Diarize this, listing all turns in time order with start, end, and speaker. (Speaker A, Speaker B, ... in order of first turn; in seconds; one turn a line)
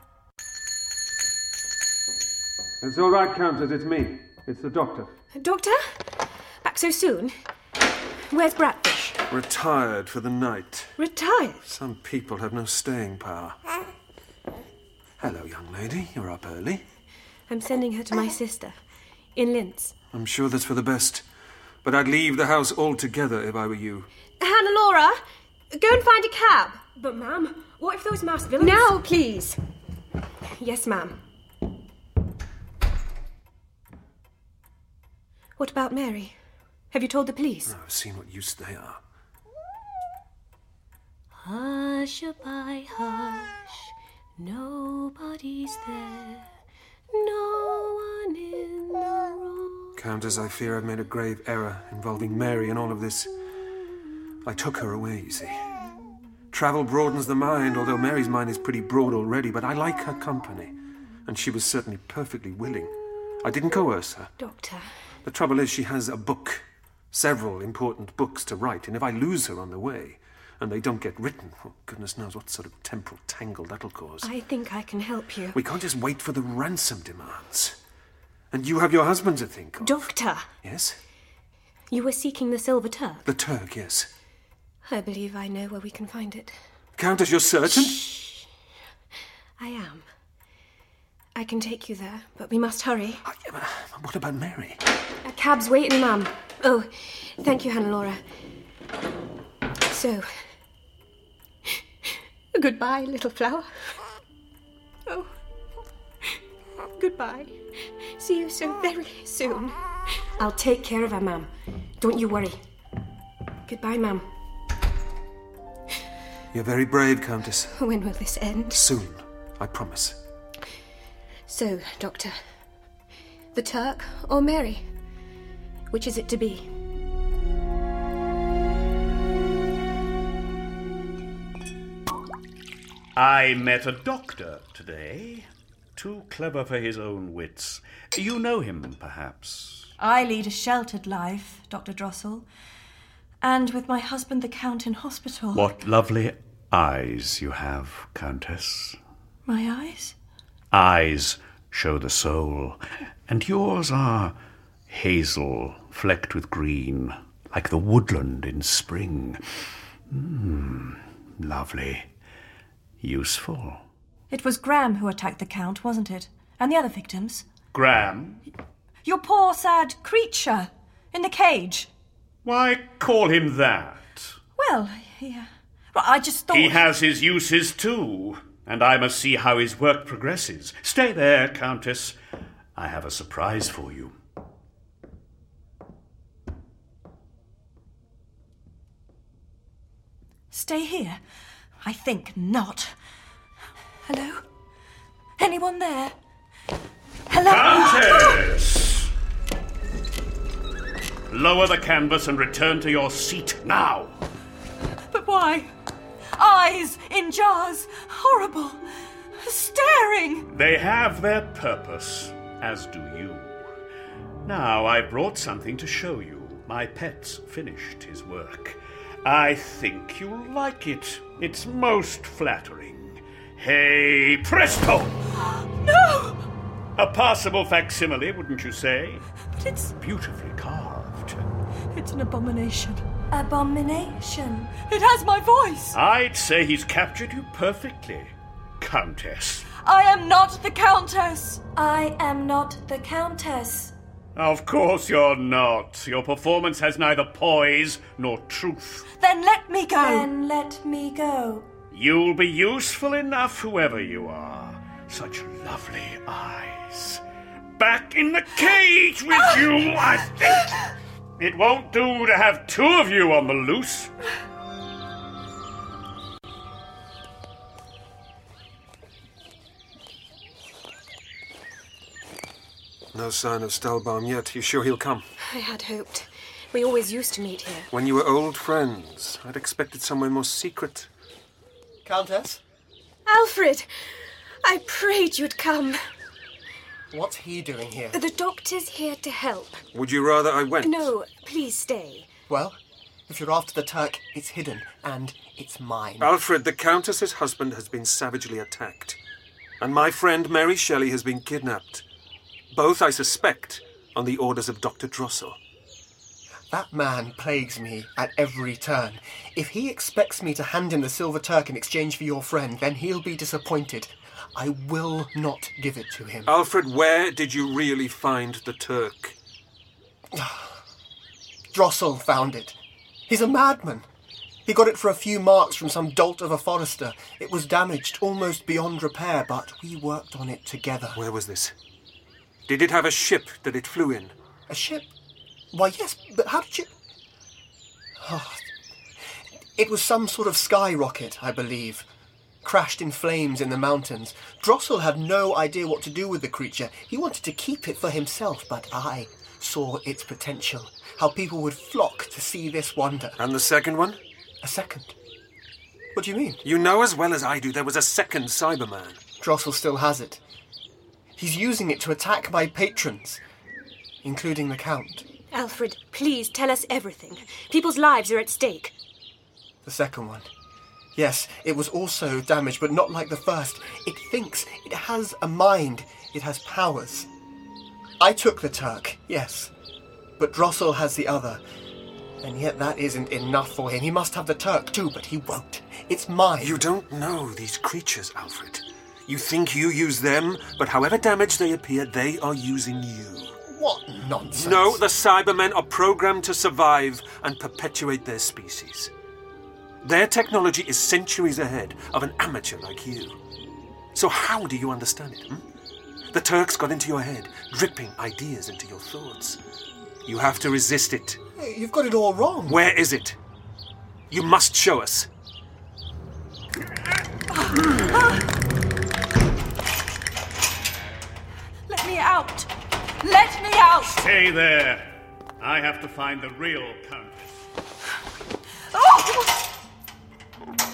Speaker A: 2.8-5.1
Speaker B: 5.3-5.8
Speaker B: 6.6-7.3
Speaker B: 8.3-9.2
Speaker A: 9.3-10.9
Speaker B: 11.0-11.6
Speaker A: 11.7-13.6
Speaker A: 15.2-16.8
Speaker B: 17.5-18.8
Speaker B: 19.4-19.9
Speaker A: 20.1-21.2
Speaker A: 21.8-24.1
Speaker B: 24.4-25.2
Speaker B: 25.7-29.6
Speaker B: 30.6-31.1
Speaker B: 35.6-36.4
Speaker B: 36.9-37.7
Speaker A: 37.7-39.0
Speaker C: 41.4-46.5
Speaker C: 47.1-49.9
Speaker A: 50.0-53.3
Speaker A: 54.4-55.6
Speaker A: 56.5-60.7
Speaker A: 61.2-64.3
Speaker B: 64.4-64.8
Speaker A: 65.2-74.3
Speaker B: 74.2-75.6
Speaker A: 75.5-77.8
Speaker A: 78.5-80.1
Speaker B: 79.8-80.5
Speaker A: 80.6-81.0
Speaker B: 81.9-83.2
Speaker A: 83.2-84.1
Speaker B: 84.8-86.5
Speaker A: 87.0-88.1
Speaker B: 87.7-88.4
Speaker B: 89.6-90.0
Speaker B: 91.3-93.2
Speaker A: 93.2-94.8
Speaker B: 95.2-98.2
Speaker B: 99.8-100.2
Speaker B: 102.1-103.7
Speaker B: 107.0-107.5
Speaker B: 108.2-109.8
Speaker B: 110.4-111.5
Speaker B: 112.0-112.6
Speaker B: 113.7-114.2
Speaker A: 116.5-117.7
Speaker B: 117.8-118.8
Speaker A: 118.7-120.2
Speaker B: 121.5-122.3
Speaker B: 123.5-124.8
Speaker B: 125.9-126.7
Speaker D: 133.2-139.9
Speaker E: 140.0-142.4
Speaker E: 143.4-145.7
Speaker D: 145.5-149.0
Speaker E: 149.4-150.1
Speaker D: 150.7-154.3
Speaker D: 154.9-159.4
Speaker D: 160.1-162.1
Speaker D: 163.0-163.8
Speaker E: 164.3-167.4
Speaker D: 167.7-168.4
Speaker E: 169.0-171.9
Speaker D: 172.4-174.3
Speaker E: 174.6-176.8
Speaker D: 176.5-182.2
Speaker D: 182.8-184.1
Speaker E: 190.5-191.2
Speaker E: 191.8-192.9
Speaker E: 194.1-194.4
Speaker E: 195.4-196.1
Speaker E: 197.3-198.4
Speaker D: 197.4-199.1
Speaker D: 201.3-204.1
Speaker E: 205.1-205.7
Speaker E: 206.3-208.8
Speaker E: 209.4-210.5
Speaker D: 210.5-213.6
Speaker D: 214.4-225.2
Speaker E: 225.4-226.4
Speaker D: 227.0-229.2
Speaker E: 229.6-229.9
Speaker D: 230.0-231.4
Speaker E: 231.9-236.0
Speaker D: 235.9-239.7
Speaker E: 239.8-243.9
Speaker D: 244.3-249.1
Speaker E: 249.2-251.7
Speaker D: 251.9-257.2
Speaker D: 257.8-260.9
Speaker D: 261.4-264.1
Speaker A: 273.1-275.2
Speaker B: 275.4-277.9
Speaker A: 277.9-281.1
Speaker F: 282.0-282.6
Speaker B: 283.2-283.9
Speaker B: 284.6-286.0
Speaker F: 287.1-288.2
Speaker B: 288.1-289.8
Speaker A: 289.9-291.1
Speaker B: 290.8-292.3
Speaker F: 292.5-296.3
Speaker A: 296.2-299.2
Speaker A: 299.8-302.0
Speaker A: 302.7-305.6
Speaker F: 306.7-316.5
Speaker A: 316.4-319.4
Speaker F: 320.3-320.8
Speaker F: 321.7-322.8
Speaker F: 323.3-324.0
Speaker F: 324.6-331.2
Speaker A: 331.1-331.7
Speaker A: 332.7-334.3
Speaker F: 334.7-335.1
Speaker F: 335.7-336.9
Speaker F: 338.2-338.6
Speaker F: 339.8-342.1
Speaker F: 342.6-353.4
Speaker A: 353.4-354.2
Speaker F: 354.6-355.1
Speaker F: 356.1-356.6
Speaker A: 356.6-359.2
Speaker F: 359.4-360.4
Speaker F: 361.4-363.4
Speaker F: 364.2-365.2
Speaker B: 365.5-368.9
Speaker F: 369.8-370.5
Speaker F: 371.1-377.3
Speaker F: 378.2-379.7
Speaker F: 380.4-381.6
Speaker F: 382.4-386.8
Speaker A: 386.6-393.6
Speaker F: 393.7-395.0
Speaker A: 394.5-399.1
Speaker A: 400.0-403.4
Speaker A: 404.1-405.6
Speaker A: 406.3-409.6
Speaker A: 410.2-411.4
Speaker F: 411.6-412.8
Speaker A: 412.6-413.4
Speaker A: 414.3-415.3
Speaker E: 417.5-418.4
Speaker E: 421.9-422.7
Speaker E: 423.2-424.2
Speaker D: 424.1-425.1
Speaker D: 425.6-427.6
Speaker E: 428.9-429.6